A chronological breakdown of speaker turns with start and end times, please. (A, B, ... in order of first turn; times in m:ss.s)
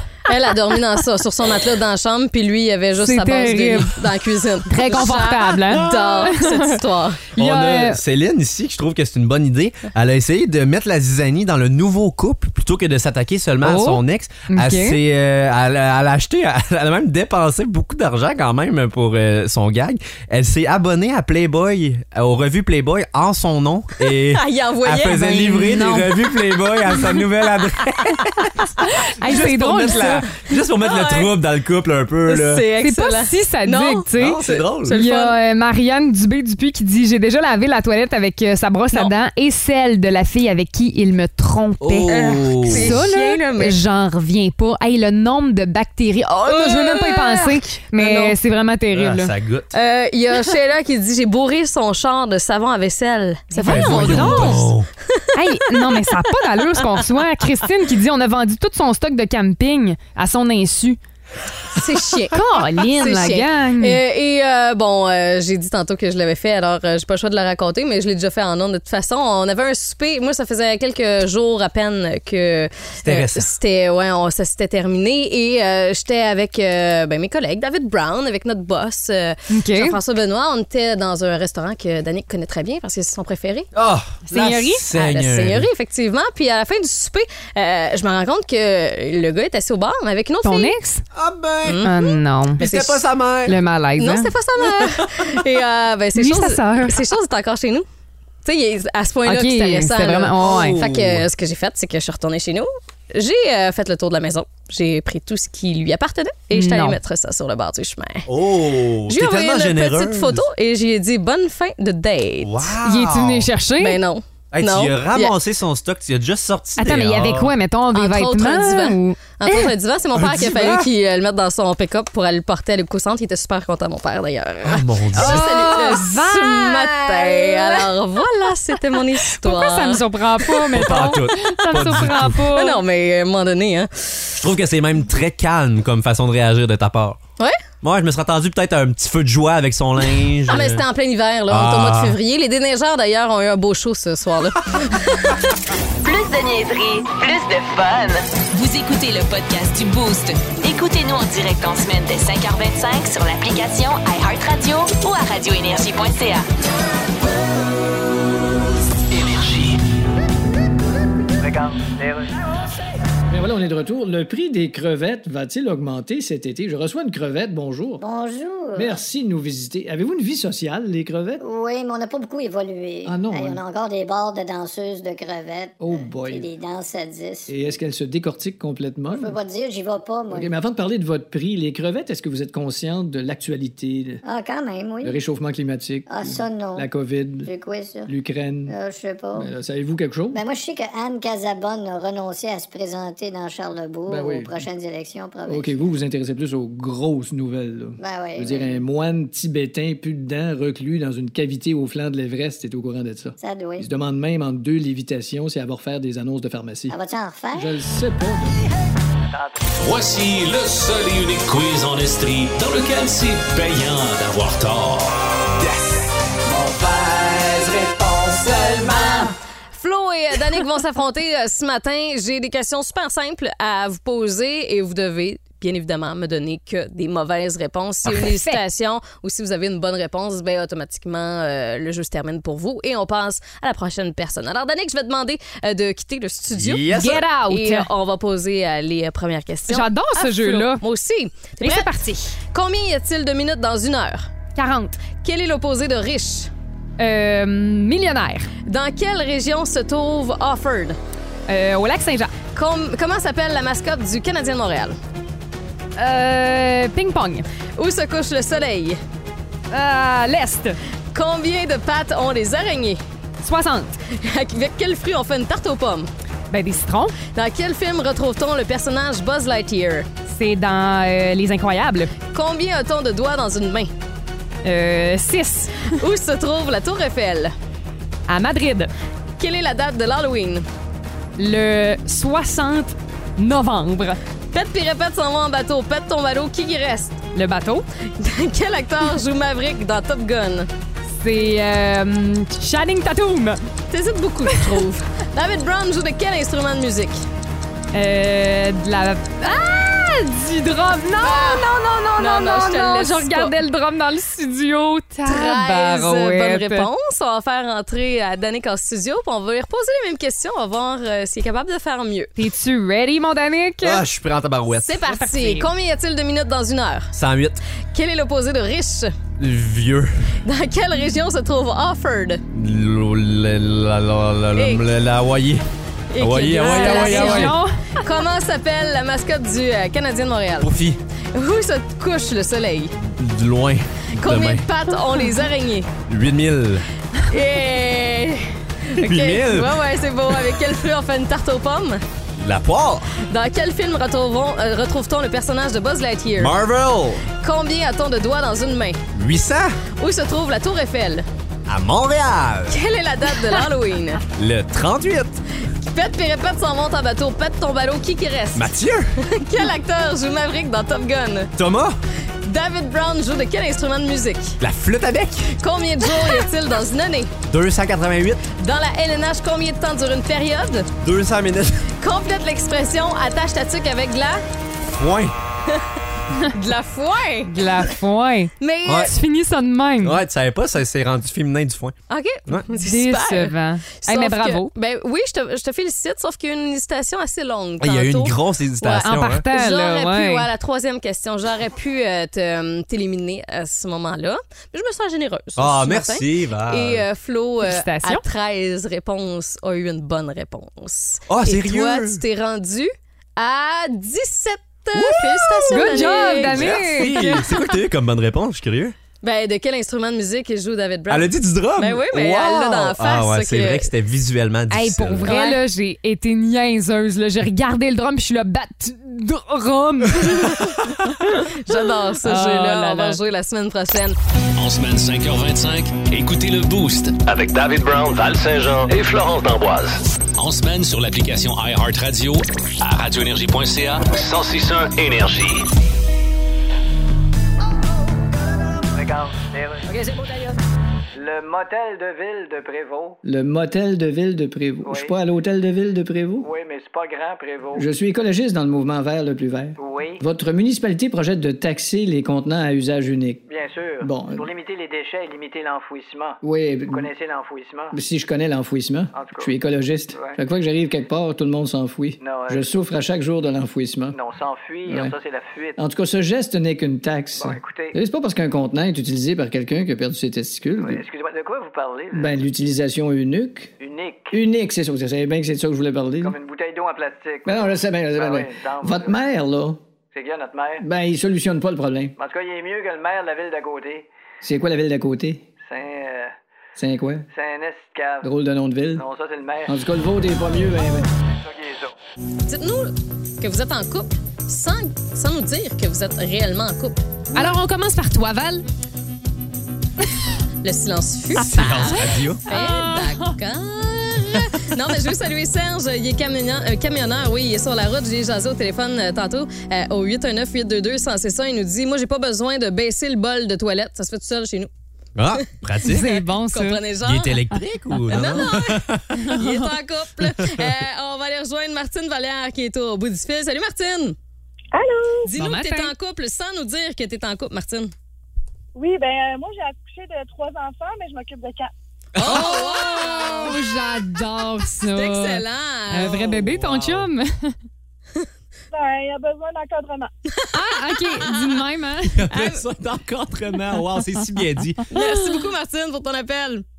0:00.3-0:07.3 A
0:03.0-0:04.0 B
0:04.7-0:06.8 B
0:07.4-0:28.7 C
0:07.4-0:08.0 B
0:13.6-0:15.0 B
0:24.0-0:25.5 A
0:25.1-0:26.1 B
0:28.9-0:30.2 B
0:29.2-0:32.6 C
0:30.8-0:31.3 A
0:32.2-0:35.4 A
0:32.8-0:49.3 B
0:34.2-0:34.9 C
0:41.8-0:43.0 C
0:42.1-0:43.8 A
0:46.5-0:48.3 A
0:48.9-0:49.7 C
0:49.7-0:55.2 A
0:53.5-0:54.7 B
0:53.6-0:54.9 C
0:55.3-1:01.0 B
0:55.8-0:56.1 A
1:01.7-1:23.7 A
1:02.3-1:04.0 B
1:13.0-1:13.5 C
1:19.5-1:20.0 B
1:23.7-1:25.7 C
1:24.3-1:24.8 B
1:24.9-1:30.7 A
1:30.4-1:31.0 B
1:31.1-1:31.9 C
1:31.6-1:33.0 A
1:31.8-1:32.6 B
1:32.6-1:33.6 C
1:33.4-1:35.0 B
1:34.0-1:37.8 A
1:36.2-1:37.0 B
1:38.4-1:48.3 A
1:39.2-1:40.8 B
1:40.4-1:41.3 C
1:46.5-1:47.0 B
1:48.2-1:50.4 C
1:49.1-1:52.7 A
1:52.4-1:53.5 C
1:52.8-1:54.0 B
1:53.8-1:55.3 A
1:54.5-1:57.5 C
1:56.8-1:59.7 B
1:57.9-2:11.0 A
2:00.1-2:00.9 C
2:04.6-2:05.8 C
2:05.2-2:07.8 B
2:09.3-2:12.8 B
2:10.7-2:12.4 C
2:12.5-2:14.4 A
2:14.4-2:17.2 C
2:17.8-2:20.8 C
2:20.5-2:25.4 A
2:21.5-2:22.2 C
2:26.0-2:36.4 D
2:41.4-2:42.4 E
2:43.3-2:48.0 F
2:48.0-2:49.0 G
2:48.8-2:51.4 F
2:51.4-2:57.5 G
2:53.0-2:53.6 F
2:55.8-2:56.5 F
2:57.5-2:59.4 F
2:59.1-3:00.5 G
3:00.3-3:04.2 F
3:04.2-3:05.2 G
3:05.0-3:07.5 F
3:06.1-3:06.9 G
3:07.4-3:08.1 G
3:08.1-3:08.7 F
3:08.7-3:09.5 G
3:09.4-3:10.4 F
3:10.3-3:15.9 G
3:14.1-3:14.6 F
3:15.5-3:26.9 F
3:18.0-3:18.8 G
3:23.4-3:23.9 G
3:26.9-3:27.7 G
3:27.6-3:28.7 F
3:29.3-3:29.6 E
3:29.7-3:35.9 H
3:39.7-4:01.9 A
3:48.0-3:48.6 B
3:56.5-3:57.2 C
3:56.9-3:57.9 B
3:59.7-4:00.8 B
4:01.6-4:02.3 B
4:02.5-4:04.3 A
4:04.6-4:05.0 B
4:05.2-4:06.5 A
4:07.0-4:08.5 B
4:08.6-4:11.0 A
4:11.5-4:12.3 B
4:12.5-4:15.0 A
4:16.0-4:17.4 B
4:17.8-4:19.0 A
4:19.7-4:20.8 B
4:21.1-4:23.0 A
4:23.4-4:23.9 B
4:24.1-4:26.1 A
4:26.5-4:27.2 B
4:27.3-4:30.1 A
4:30.3-4:32.1 B
4:32.3-4:33.9 A
4:34.6-4:36.0 B
4:35.9-4:37.5 A
4:38.3-4:38.9 B
4:39.4-4:40.6 A
4:41.4-4:44.2 B
4:44.5-4:47.2 A
4:47.3-4:47.8 B
4:48.2-4:50.7 A
4:51.2-4:53.6 B
4:53.9-4:57.2 A
4:54.5-4:54.8 B
4:57.9-5:06.9 B
5:01.2-5:03.5 A
5:05.2-5:12.3 A
5:12.4-5:14.0 B
5:13.8-5:15.0 C
5:14.8-5:17.1 A
5:15.0-5:15.7 B
5:17.1-5:17.6 C
5:17.9-5:19.1 A
5:19.4-5:20.4 C
5:20.4-5:22.4 A
5:22.5-5:25.6 C
5:24.5-5:24.8 A
5:26.1-5:30.7 A
5:26.2-5:27.6 C
5:26.6-5:28.0 B
5:30.6-5:31.0 C
5:31.3-5:32.9 A
5:33.0-5:34.6 C
5:34.2-5:35.9 A
5:36.1-5:36.9 C
5:37.2-5:42.0 A
5:39.0-5:39.8 C
5:42.4-5:43.1 C
5:43.2-5:46.6 A
5:46.4-5:47.3 C
5:47.4-5:49.0 A
5:49.1-5:49.8 C
5:50.0-5:51.3 A
5:51.7-5:52.8 C
5:52.7-5:54.2 A
5:54.4-5:55.4 C
5:55.8-6:01.5 A
5:58.5-5:59.2 C
6:01.6-6:02.0 C
6:02.4-6:04.6 A
6:04.6-6:05.5 C
6:05.5-6:07.3 A
6:07.5-6:08.4 C
6:08.6-6:10.9 A
6:11.0-6:11.9 C
6:12.0-6:14.4 A
6:14.8-6:15.4 C
6:16.5-6:17.5 A
6:17.5-6:20.2 B
6:18.6-6:19.1 A
6:18.8-6:19.1 C
6:20.0-6:22.0 C
6:22.1-6:47.5 A
6:22.7-6:24.7 B
6:27.8-6:29.4 C
6:28.9-6:30.5 B
6:35.6-6:37.0 C
6:37.6-6:38.2 B
6:41.3-6:42.2 C
6:44.9-6:49.0 C
6:45.7-6:47.4 B
6:49.2-6:53.9 A
6:51.1-6:55.3 C
6:54.7-7:00.6 B
6:55.3-6:55.6 A
7:00.3-7:00.6 A
7:01.3-7:04.2 A
7:02.2-7:03.2 B
7:04.6-7:07.2 H
7:07.2-7:10.0 I
7:10.4-7:14.0 H
7:14.1-7:15.7 I
7:18.9-7:20.6 E
7:21.2-7:23.2 E
7:23.2-7:26.5 F
7:24.8-7:25.2 E
7:26.4-7:27.8 E
7:27.8-7:33.4 F
7:29.8-7:30.2 E
7:33.4-7:38.0 E
7:34.0-7:34.4 F
7:36.4-7:37.1 F
7:37.9-7:44.2 F
7:39.1-7:39.5 E
7:40.1-7:40.4 E
7:42.2-7:42.7 E
7:44.1-7:45.8 E
7:44.9-7:45.1 F
7:45.8-7:51.0 F
7:47.4-7:48.0 E
7:50.8-7:52.3 E
7:52.1-7:53.7 F
7:53.8-7:54.4 E
7:54.3-7:56.4 F
7:56.2-7:59.2 E
7:57.4-7:59.8 F
8:00.1-8:00.8 E
8:00.8-8:02.1 F
8:02.2-8:04.1 E
8:04.4-8:05.4 F
8:05.6-8:06.3 E
8:06.8-8:07.2 F
8:07.3-8:08.3 E
8:08.2-8:09.0 F
8:08.9-8:09.8 E
8:09.7-8:11.0 F
8:10.4-8:11.9 E
8:12.5-8:17.0 A
8:17.3-8:18.6 B
8:20.6-8:34.7 A
8:21.4-8:22.4 C
8:22.5-8:23.3 B
8:35.2-8:36.1 C
8:35.8-8:36.8 B
8:36.0-8:37.4 A
8:37.0-8:39.0 C
8:38.1-8:44.2 A
8:39.2-8:39.7 B
8:40.4-8:40.7 C
8:44.7-8:45.3 J
8:45.3-8:47.9 A
8:45.4-8:45.9 B
8:48.7-8:51.7 J
8:52.2-8:53.7 A
8:52.2-8:52.5 C
8:52.2-8:57.5 B
8:54.8-8:56.6 A
8:56.6-8:57.0 C
8:58.7-9:00.1 J
9:00.3-9:01.5 A
9:00.5-9:02.2 B
9:02.2-9:04.8 C
9:02.3-9:02.6 A
9:04.9-9:06.6 A